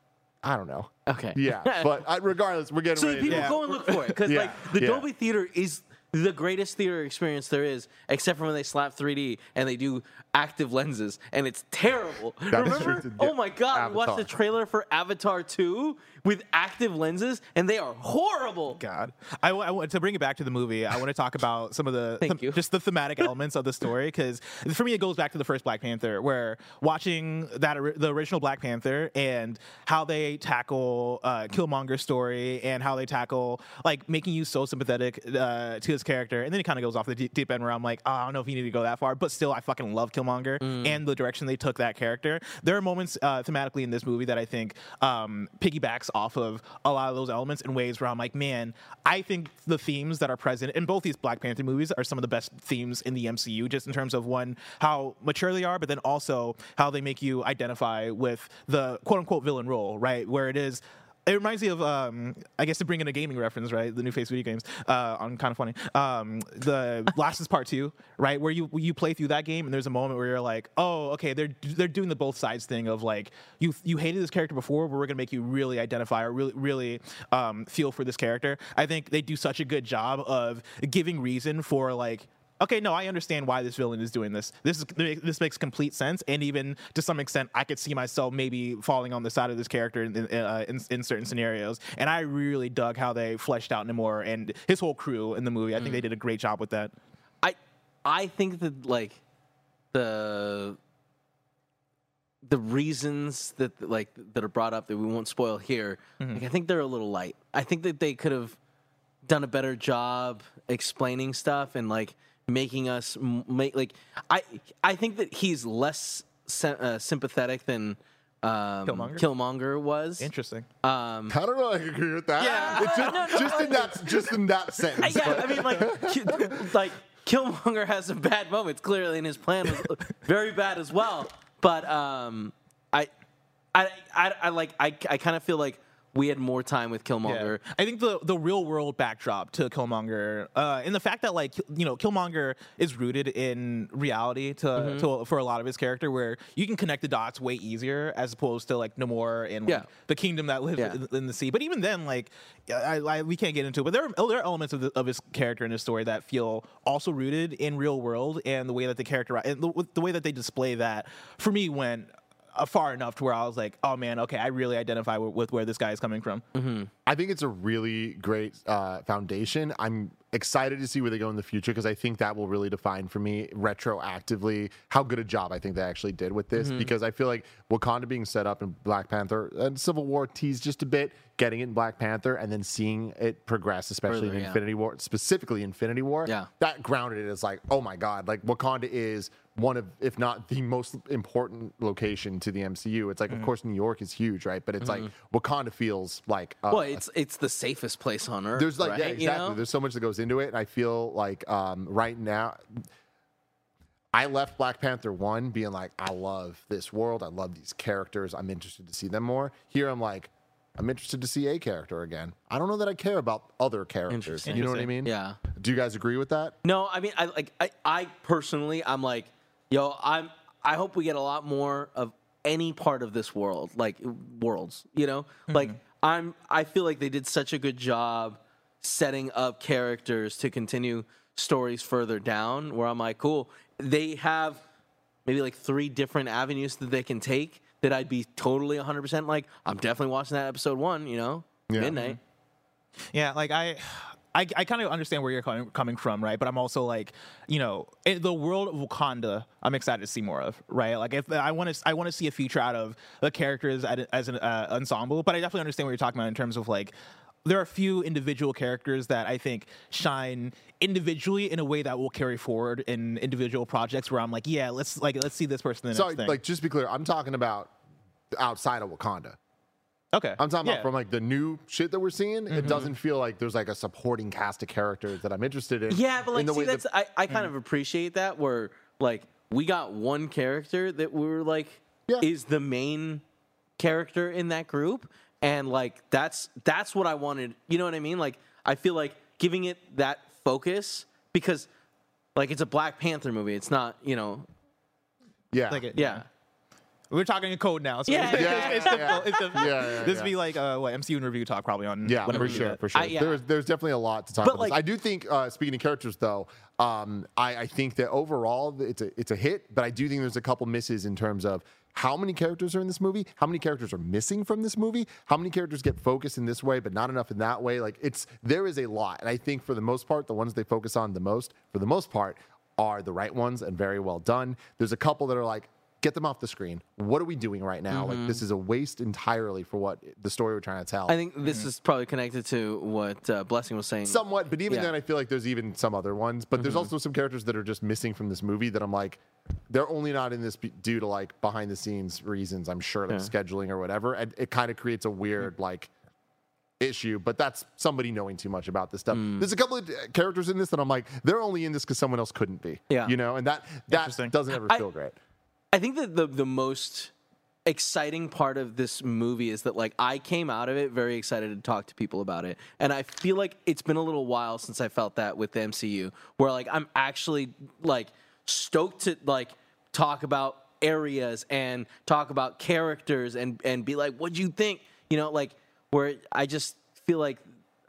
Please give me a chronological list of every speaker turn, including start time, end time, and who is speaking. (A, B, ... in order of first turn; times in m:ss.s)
0:00.4-0:03.6 A
0:01.1-0:01.9 B
0:03.0-0:18.8 B
0:03.3-0:04.2 C
0:04.2-0:05.1 A
0:12.5-0:14.3 A
0:12.6-0:13.0 C
0:18.8-1:36.9 C
0:22.2-0:22.6 B
0:40.6-0:41.0 B
1:35.8-1:36.1 B
1:37.4-1:39.2 B
1:39.9-1:40.8 B
1:42.4-1:48.6 B
1:46.2-1:46.5 C
1:49.2-2:00.3 B
1:58.9-1:59.3 C
2:00.2-2:00.7 C
2:00.8-2:01.4 B
2:01.3-2:06.7 A
2:02.4-2:03.9 C
2:02.4-2:04.3 B
2:05.0-2:13.1 B
2:05.1-2:05.5 C
2:13.7-2:17.6 B
2:17.2-2:46.4 C
2:24.8-2:25.1 B
2:46.5-2:46.9 B
2:47.1-3:17.0 A
2:56.6-2:56.9 B
3:04.1-3:04.6 B
3:14.8-3:15.1 B
3:16.7-3:19.6 B
3:18.6-3:22.8 A
3:24.1-3:36.6 A
3:34.1-3:35.4 B
3:34.5-3:34.9 C
3:36.6-3:54.6 B
3:45.5-3:45.8 C
3:55.3-4:02.2 B
4:01.7-4:02.0 A
4:03.1-4:16.9 C
4:17.4-4:26.4 C
4:25.9-4:27.7 A
4:28.3-4:29.4 A
4:30.1-4:30.9 C
4:30.4-4:36.8 A
4:32.5-4:32.9 C
4:35.9-4:43.2 B
4:43.8-4:51.7 B
4:52.4-4:54.5 B
4:55.5-4:55.9 A
4:55.7-4:56.2 C
4:56.0-4:56.2 B
4:57.1-5:02.8 C
4:58.1-4:59.9 B
4:58.3-5:00.4 A
5:02.0-5:31.2 A
5:02.3-5:03.4 B
5:04.4-5:04.8 B
5:27.9-5:28.4 B
5:31.1-5:34.9 B
5:31.4-5:31.7 C
5:34.1-5:45.9 A
5:36.6-5:36.9 B
5:46.8-5:55.2 A
5:49.1-5:49.5 B
5:53.9-5:54.3 C
5:55.7-5:57.1 B
5:57.6-6:17.4 B